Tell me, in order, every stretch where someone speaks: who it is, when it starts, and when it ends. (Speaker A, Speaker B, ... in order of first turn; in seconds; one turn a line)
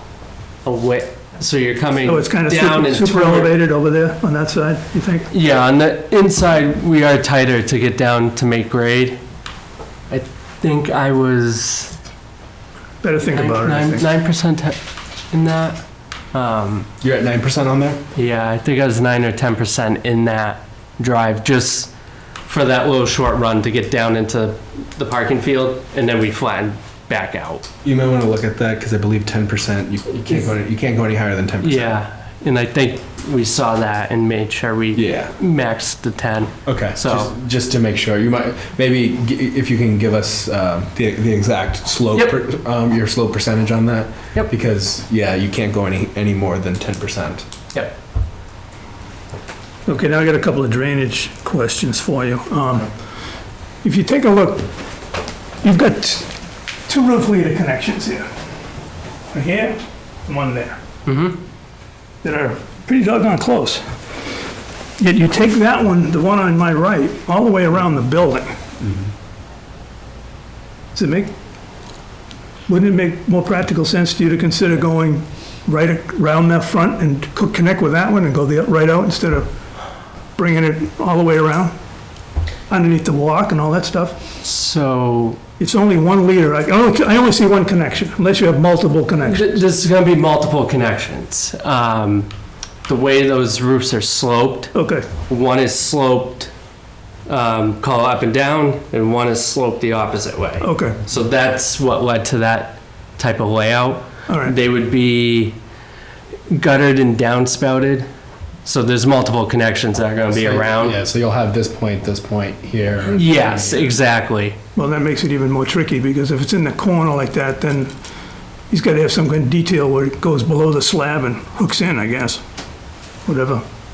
Speaker A: 0.6-3.5
Speaker B: 2.0-5.3
Speaker A: 5.3-9.2
Speaker A: 10.1-11.9
Speaker B: 13.0-14.1
Speaker A: 13.3-14.8
Speaker A: 15.3-15.8
Speaker A: 16.3-16.9
Speaker C: 17.0-18.0
Speaker A: 18.1-21.9
Speaker A: 22.4-27.7
Speaker C: 27.8-32.0
Speaker A: 31.6-37.3
Speaker C: 34.9-35.3
Speaker C: 36.6-47.4
Speaker B: 49.9-52.9
Speaker B: 53.8-54.7
Speaker B: 55.6-58.3
Speaker B: 59.3-60.8
Speaker A: 61.0-61.4
Speaker B: 62.2-64.2
Speaker B: 65.0-68.6
Speaker B: 70.9-71.3
Speaker B: 72.7-79.5
Speaker B: 80.3-81.8
Speaker B: 82.7-84.2
Speaker A: 84.4-85.4
Speaker B: 85.6-89.6
Speaker A: 89.2-92.3
Speaker A: 92.9-94.7
Speaker B: 94.7-95.0
Speaker A: 95.2-96.5
Speaker A: 97.3-105.6
Speaker B: 100.6-101.0
Speaker B: 104.3-104.5
Speaker A: 106.5-108.1
Speaker A: 108.6-111.0
Speaker C: 110.3-114.0
Speaker A: 113.1-114.6
Speaker B: 114.8-117.9
Speaker B: 118.7-122.4
Speaker B: 123.2-123.6